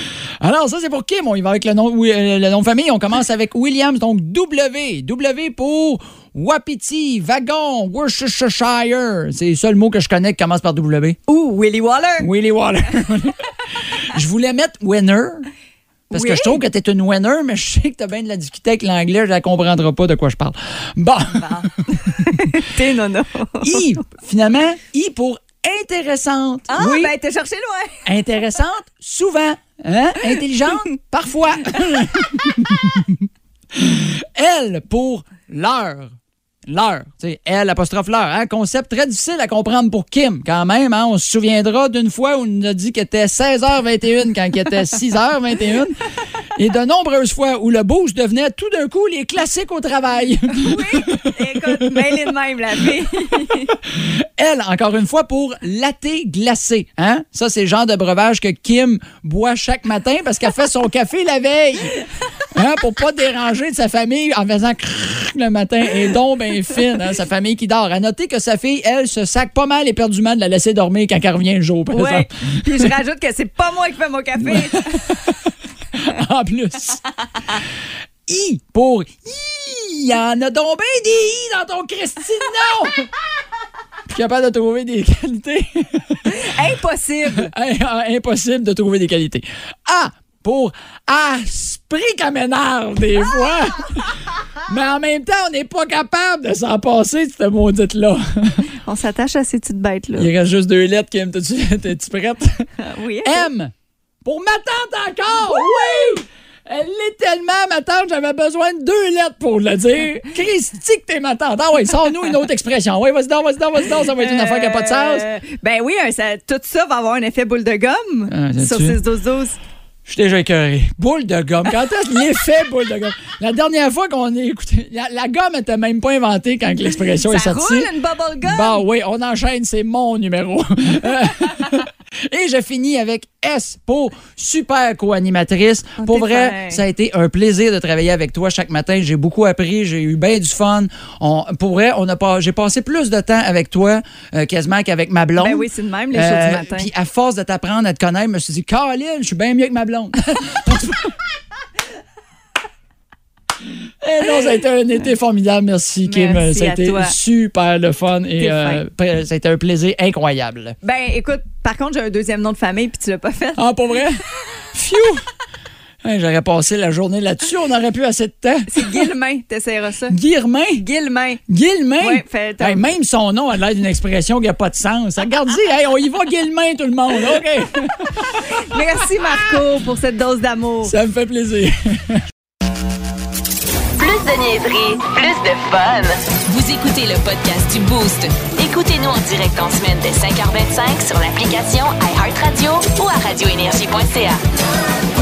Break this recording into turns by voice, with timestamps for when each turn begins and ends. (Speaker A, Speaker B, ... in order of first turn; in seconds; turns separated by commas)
Speaker A: 0.4-11.2, Speaker B: 11.3-12.3, Speaker A: 12.2-15.5, Speaker B: 16.1-16.6, Speaker A: 16.1-22.3, Speaker B: 21.3-23.9, Speaker A: 23.6-27.1, Speaker B: 26.7-28.0, Speaker A: 28.0-36.1, Speaker B: 31.8-32.0, Speaker A: 36.6-46.0, Speaker A: 46.5-51.7, Speaker B: 50.5-53.8, Speaker A: 53.9-62.0, Speaker A: 62.5-72.9, Speaker B: 71.9-75.3, Speaker A: 74.4-75.3, Speaker A: 75.9-77.0, Speaker A: 78.3-83.1, Speaker A: 84.1-86.5, Speaker B: 86.2-87.5, Speaker A: 87.3-98.6, Speaker B: 98.7-100.3, Speaker A: 100.2-102.7, Speaker B: 102.8-103.5, Speaker A: 103.2-103.7, Speaker A: 104.2-115.2, Speaker B: 114.1-119.6, Speaker A: 118.3-119.0, Speaker A: 120.0-127.9, Speaker B: 127.2-128.8, Speaker A: 128.4-151.1, Speaker B: 136.0-136.8, Speaker B: 145.4-146.9, Speaker A: 154.0-160.8, Speaker B: 156.0-157.1, Speaker B: 158.4-158.8, Speaker B: 160.8-163.6, Speaker A: 163.6-164.2, Speaker A: 164.7-165.2, Speaker A: 166.0-169.1, Speaker B: 168.7-170.2, Speaker A: 170.1-170.8, Speaker B: 170.8-171.4, Speaker A: 171.5-178.4, Speaker B: 172.0-172.8, Speaker B: 178.4-180.9, Speaker A: 180.8-182.2, Speaker C: 184.0-194.4